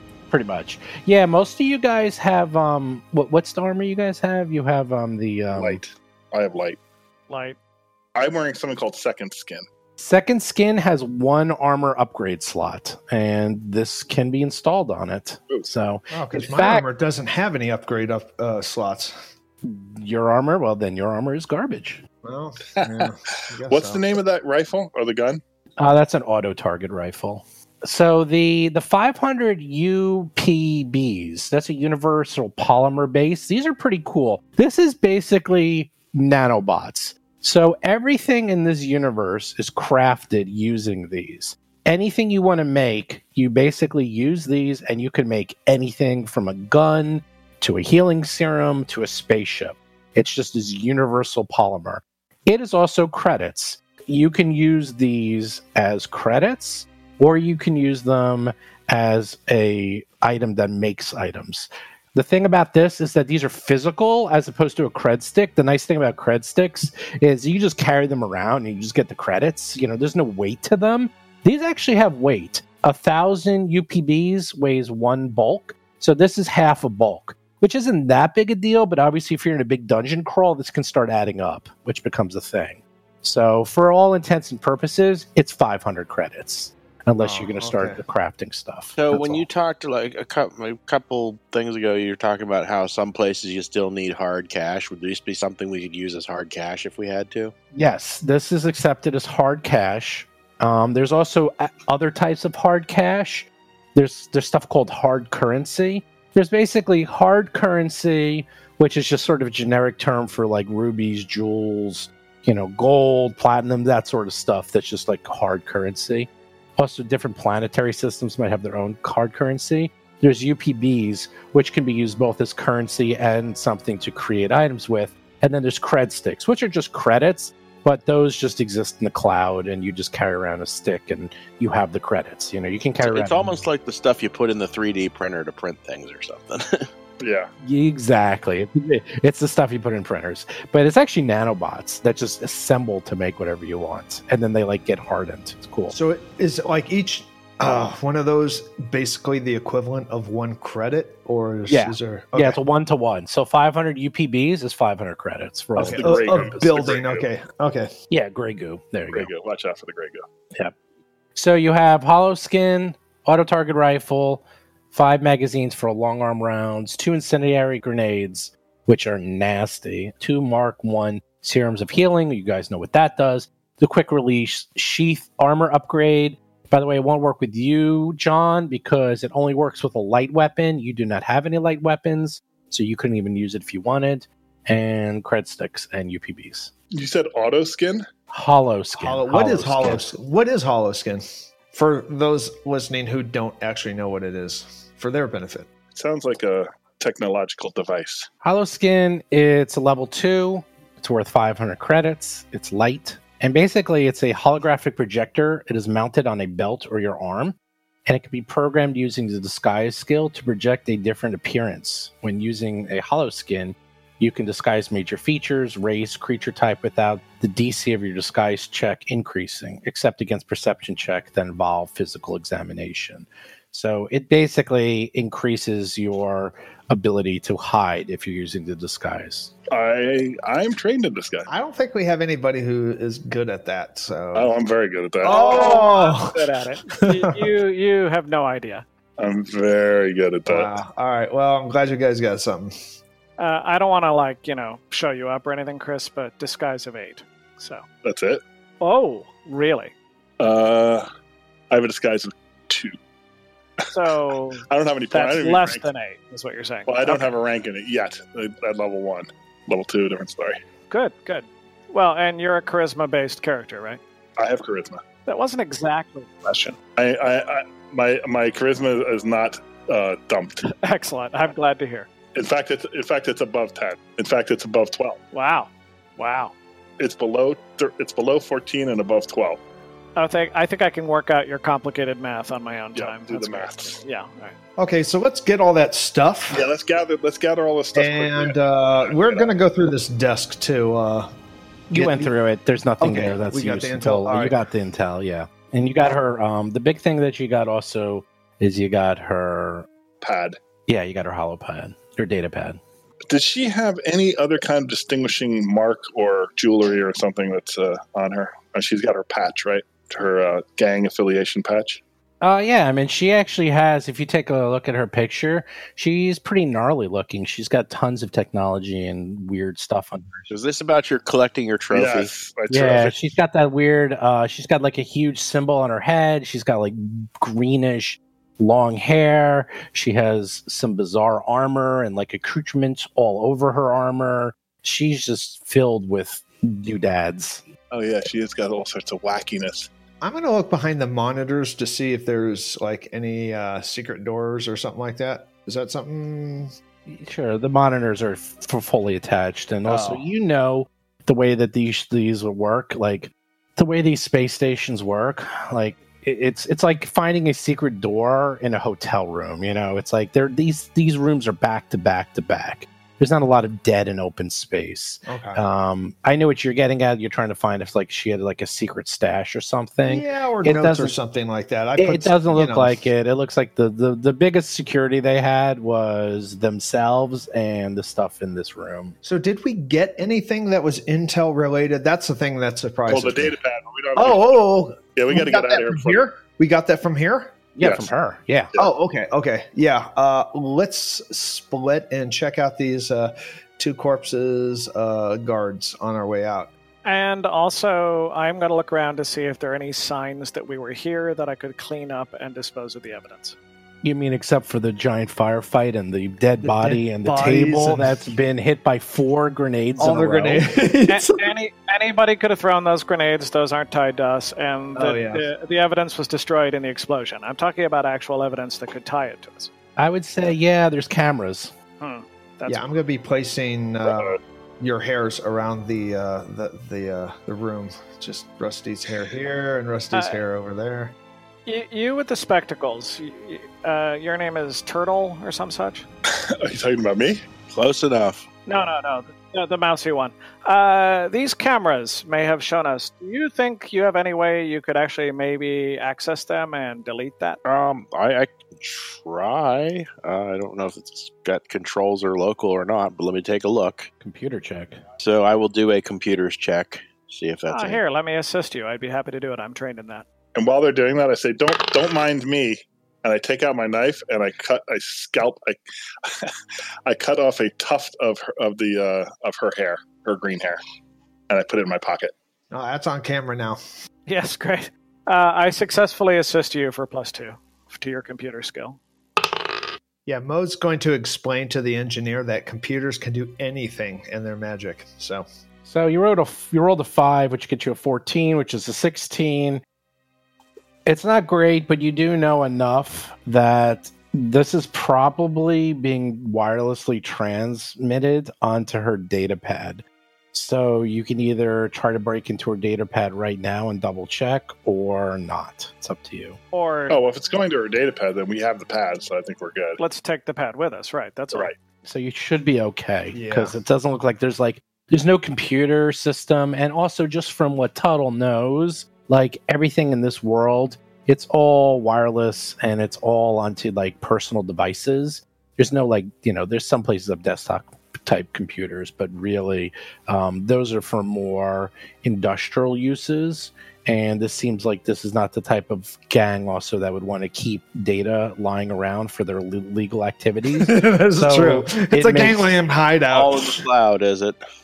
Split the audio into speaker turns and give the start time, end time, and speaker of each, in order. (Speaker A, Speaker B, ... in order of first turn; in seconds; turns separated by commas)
Speaker A: 0.3-5.8, Speaker B: 5.5-6.8, Speaker C: 7.3-7.6, Speaker B: 8.1-9.6, Speaker A: 10.0-16.9, Speaker D: 16.1-19.2, Speaker A: 19.6-22.0, Speaker D: 22.2-24.1, Speaker B: 22.8-25.4, Speaker A: 25.8-89.5, Speaker D: 87.2-88.0, Speaker E: 89.0-97.5, Speaker A: 97.7-133.6, Speaker E: 133.0-136.9, Speaker B: 137.2-137.5, Speaker A: 137.6-145.9, Speaker D: 145.9-152.6, Speaker A: 151.7-156.6, Speaker B: 155.8-157.3, Speaker D: 155.8-157.9, Speaker A: 158.1-159.3, Speaker B: 159.1-160.2, Speaker A: 161.3-186.7, Speaker B: 186.9-188.1, Speaker A: 188.3-190.1, Speaker D: 189.0-195.7, Speaker B: 195.9-198.3, Speaker A: 198.4-229.5, Speaker B: 229.7-231.5, Speaker D: 231.5-234.6, Speaker B: 234.3-235.8, Speaker D: 235.2-236.4, Speaker C: 235.2-238.8, Speaker D: 237.0-237.4, Speaker B: 239.2-240.7, Speaker D: 240.4-242.7, Speaker C: 243.4-247.8, Speaker B: 248.0-248.4, Speaker C: 248.8-249.9, Speaker B: 250.4-251.1, Speaker B: 251.7-252.9, Speaker C: 253.9-257.3, Speaker B: 254.7-255.8, Speaker B: 256.9-260.6, Speaker C: 260.9-264.0, Speaker B: 264.4-265.0, Speaker C: 265.3-266.8, Speaker B: 267.0-270.7, Speaker C: 270.6-272.1, Speaker B: 272.3-275.2, Speaker C: 275.3-276.5, Speaker B: 277.0-279.6, Speaker C: 280.1-284.6, Speaker B: 282.9-284.0, Speaker D: 284.8-286.7, Speaker B: 286.5-289.5, Speaker D: 287.9-291.3, Speaker D: 291.9-292.3, Speaker A: 291.9-299.9, Speaker D: 293.0-294.6, Speaker B: 300.2-300.6, Speaker A: 300.9-302.8, Speaker B: 303.3-312.0, Speaker A: 312.4-320.5, Speaker E: 320.5-322.3, Speaker B: 321.9-323.1, Speaker A: 322.7-337.6, Speaker B: 337.9-339.9, Speaker D: 340.2-346.7, Speaker A: 347.1-371.1, Speaker D: 349.8-350.2, Speaker D: 365.3-365.6, Speaker D: 370.1-373.0, Speaker A: 372.0-379.1, Speaker D: 379.2-383.6, Speaker B: 383.1-384.6, Speaker D: 384.1-387.6, Speaker B: 385.1-386.2, Speaker A: 387.8-388.7, Speaker B: 387.8-388.1, Speaker D: 388.8-396.7, Speaker C: 397.1-403.6, Speaker A: 404.0-410.7, Speaker D: 406.6-408.2, Speaker D: 410.0-411.4, Speaker C: 411.1-419.7, Speaker D: 414.9-415.4, Speaker A: 420.0-421.7, Speaker C: 422.0-422.9, Speaker D: 422.7-431.1, Speaker B: 424.1-424.4, Speaker C: 430.1-430.4, Speaker C: 431.6-436.1, Speaker B: 436.4-437.4, Speaker E: 437.7-438.5, Speaker C: 438.7-447.6, Speaker E: 447.6-454.1, Speaker A: 454.2-455.0, Speaker E: 455.2-458.0, Speaker C: 457.7-460.3, Speaker B: 460.6-466.5, Speaker B: 467.1-470.8, Speaker B: 471.5-472.3, Speaker D: 472.7-473.8, Speaker C: 474.3-479.0, Speaker D: 480.3-485.4, Speaker A: 485.9-489.8, Speaker A: 491.1-506.6, Speaker C: 506.7-507.2, Speaker B: 507.1-510.0, Speaker C: 510.0-511.7, Speaker A: 512.0-542.7, Speaker D: 513.3-513.7, Speaker D: 540.8-543.8, Speaker E: 543.3-544.6